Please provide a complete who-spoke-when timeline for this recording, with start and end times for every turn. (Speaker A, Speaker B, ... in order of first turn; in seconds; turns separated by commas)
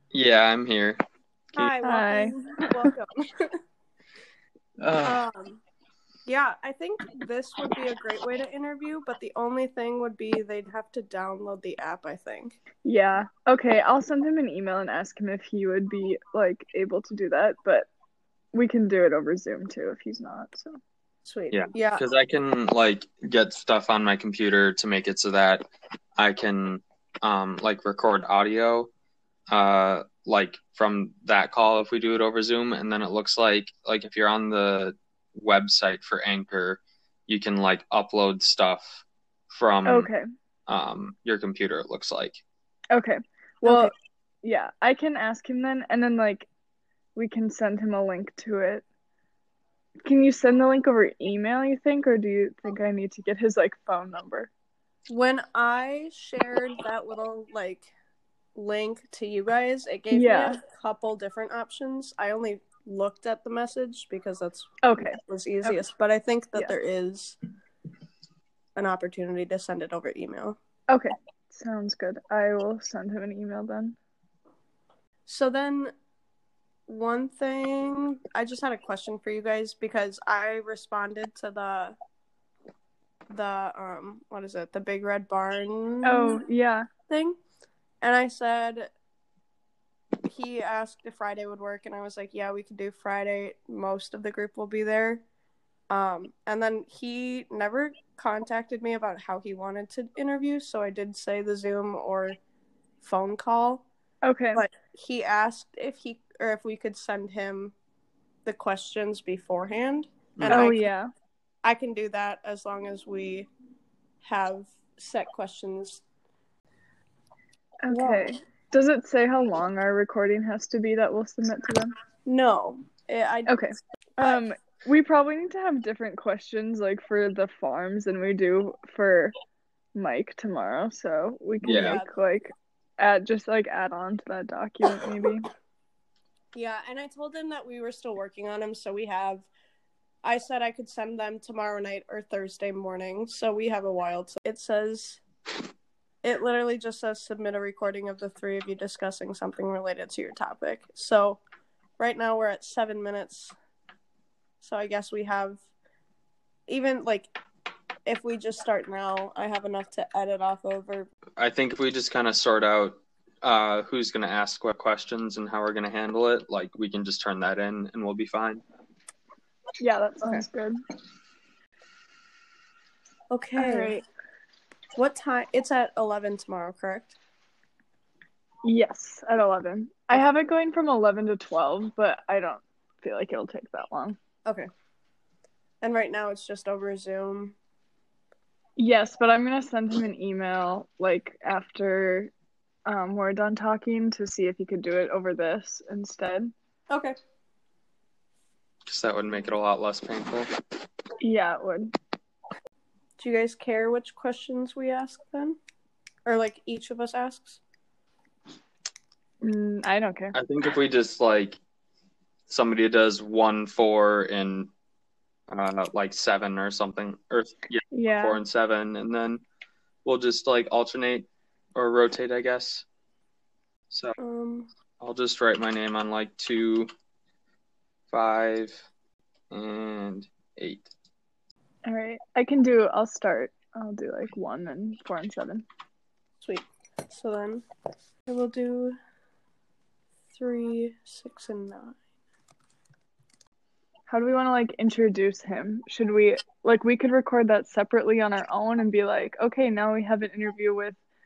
Speaker A: 0.1-1.0, Speaker B: 1.5-3.5, Speaker C: 1.8-2.9, Speaker A: 4.8-5.2, Speaker B: 5.0-5.6, Speaker B: 6.3-12.6, Speaker C: 12.8-17.9, Speaker C: 18.5-20.8, Speaker B: 21.2-22.0, Speaker A: 21.5-25.6, Speaker A: 26.2-28.9, Speaker A: 29.5-40.1, Speaker C: 39.9-40.2, Speaker A: 40.7-42.4, Speaker C: 42.9-43.9, Speaker B: 43.6-43.9, Speaker C: 44.4-46.5, Speaker C: 47.2-48.8, Speaker C: 50.0-54.5, Speaker B: 55.1-57.9, Speaker B: 58.5-64.7, Speaker C: 60.1-60.6, Speaker C: 64.8-65.8, Speaker B: 65.2-67.4, Speaker B: 68.8-70.6, Speaker C: 70.9-74.0, Speaker B: 75.3-75.9, Speaker B: 76.9-82.0, Speaker B: 83.3-86.4, Speaker C: 86.0-86.9, Speaker B: 87.1-87.4, Speaker B: 88.0-88.9, Speaker B: 90.3-95.2, Speaker B: 95.9-102.4, Speaker B: 103.0-103.8, Speaker C: 104.2-104.6, Speaker B: 104.5-107.8, Speaker B: 108.5-110.9, Speaker A: 110.4-110.7, Speaker C: 110.5-111.1, Speaker B: 111.6-113.5, Speaker B: 114.2-116.0, Speaker C: 117.8-121.9, Speaker B: 117.9-118.2, Speaker B: 122.3-123.6, Speaker C: 123.5-129.3, Speaker C: 129.9-135.4, Speaker A: 131.6-132.0, Speaker B: 131.6-132.1, Speaker B: 136.5-139.5, Speaker B: 140.2-145.2, Speaker B: 146.2-151.4, Speaker B: 152.0-153.6, Speaker B: 154.6-155.6, Speaker B: 156.7-157.3, Speaker B: 158.1-161.1, Speaker A: 161.4-168.6, Speaker C: 169.8-170.8, Speaker B: 173.3-174.0, Speaker C: 173.6-174.0, Speaker B: 174.9-177.2, Speaker C: 178.6-184.2, Speaker B: 185.8-187.6, Speaker C: 188.8-192.3, Speaker C: 192.9-196.5, Speaker B: 196.9-197.2, Speaker A: 198.9-200.5, Speaker C: 201.2-201.9, Speaker B: 203.2-205.6, Speaker B: 206.2-207.6, Speaker C: 209.4-210.3, Speaker A: 210.3-211.6, Speaker A: 212.5-214.7, Speaker A: 215.5-219.4, Speaker C: 217.9-218.4, Speaker A: 220.1-222.9, Speaker B: 224.2-224.7, Speaker A: 225.0-226.9, Speaker A: 228.1-228.8, Speaker A: 229.5-230.9, Speaker C: 231.9-235.7, Speaker B: 236.4-237.7, Speaker B: 238.3-239.0, Speaker B: 240.3-242.0, Speaker C: 244.1-251.0